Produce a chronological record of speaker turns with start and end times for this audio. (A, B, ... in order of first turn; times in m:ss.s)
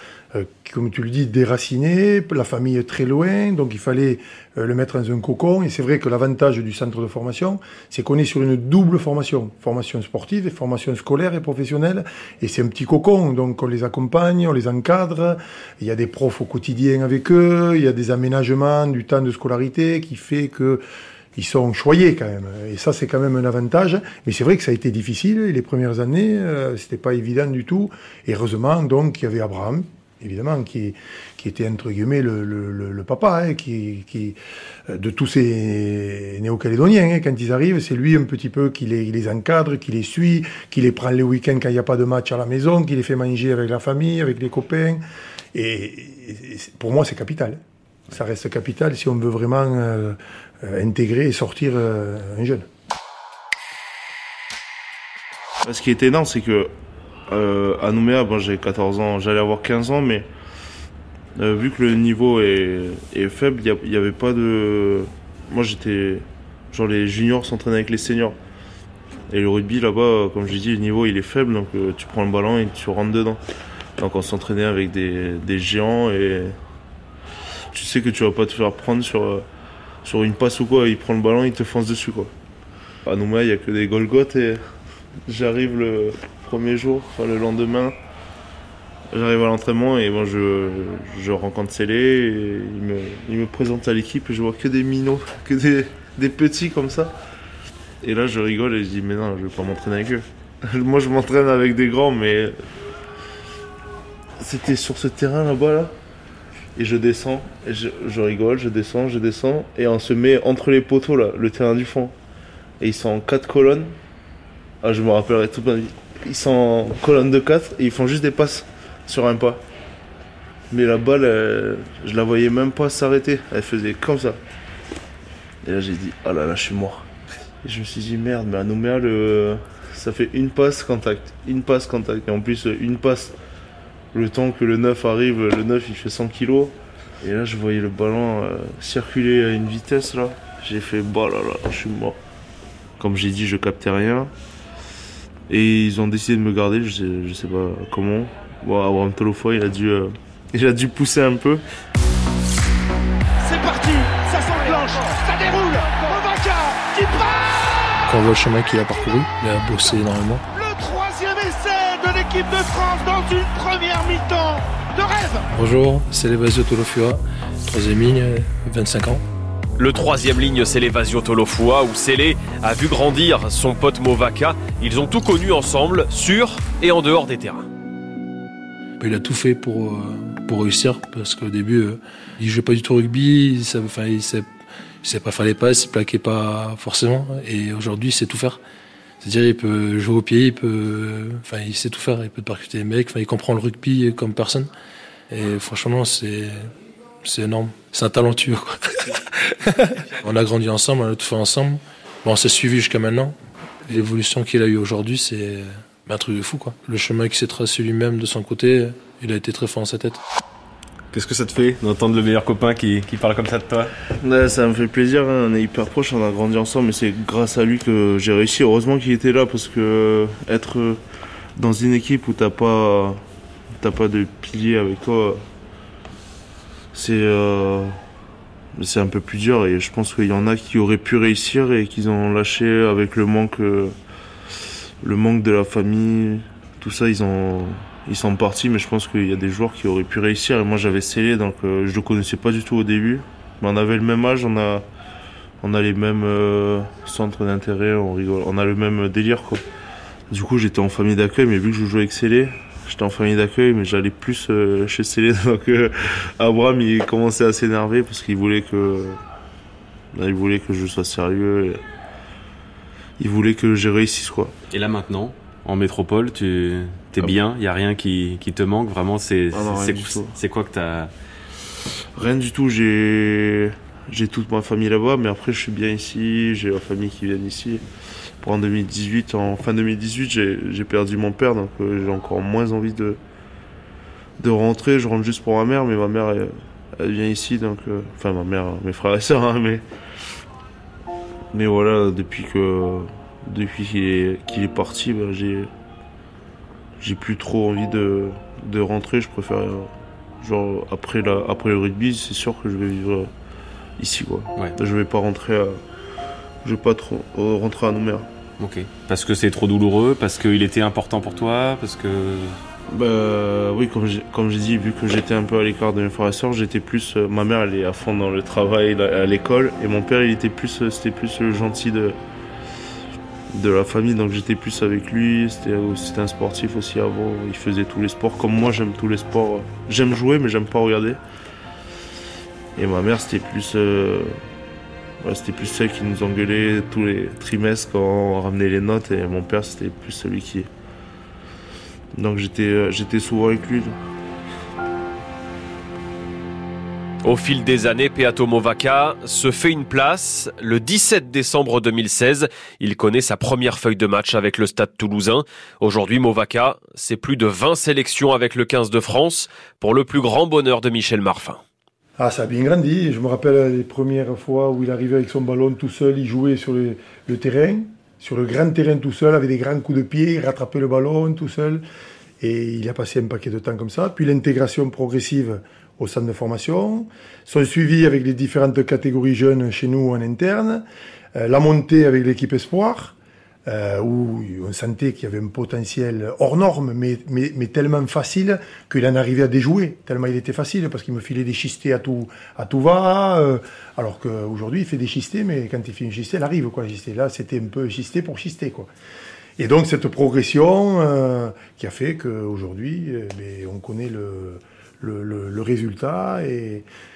0:00.3-0:20.8 A
0:21.3-0:45.0 A
0:45.5-0:52.7 A
0:55.6-0:56.7 B
0:57.3-1:00.3 B
1:01.4-1:08.4 B
1:09.3-1:13.4 B
1:14.0-1:16.6 B
1:17.7-1:19.4 B
1:20.0-1:22.3 B
1:23.0-1:24.6 B
1:25.2-1:28.0 B
1:29.1-1:37.1 B
1:38.0-1:42.6 B
1:44.4-1:45.9 B
1:46.8-1:52.1 B
1:52.8-1:54.0 B
1:54.8-1:59.6 B
2:00.7-2:04.4 B
2:05.6-2:07.1 B
2:07.6-2:13.3 B
2:14.1-2:22.2 B
2:23.0-2:24.3 B
2:25.5-2:31.6 B
2:33.4-2:37.5 C
2:38.1-2:40.4 D
2:40.5-2:45.5 C
2:45.5-2:49.2 D
2:49.8-2:57.7 E
2:59.0-3:04.5 D
3:05.0-3:08.6 D
3:09.2-3:14.7 D
3:15.3-3:16.7 D
3:17.2-3:23.3 D
3:23.9-3:30.2 D
3:31.1-3:33.9 F
3:34.2-3:41.0 B
3:41.6-3:43.2 B
3:43.8-3:45.4 B
3:46.9-3:48.0 B
3:48.7-3:53.9 B
3:55.0-4:04.8 B
4:05.6-4:09.6 B
4:10.3-4:19.2 B
4:20.1-4:21.8 B
4:23.2-4:24.5 B
4:24.7-4:31.1 F
4:29.5-4:30.3 B
4:32.1-4:37.8 B
4:38.4-4:43.2 B
4:44.4-4:49.8 B
4:51.5-4:55.7 B
4:57.0-5:03.3 B
5:04.0-5:05.8 B
5:06.6-5:08.3 B
5:08.6-5:12.6 F
5:12.9-5:22.2 B
5:23.5-5:31.2 B
5:32.7-5:34.4 B
5:35.2-5:40.7 B
5:42.1-5:44.0 B
5:47.2-6:01.6 E
6:02.2-6:11.8 A
6:12.4-6:20.8 A
6:21.3-6:23.1 A
6:23.6-6:38.9 A
6:39.6-6:46.8 A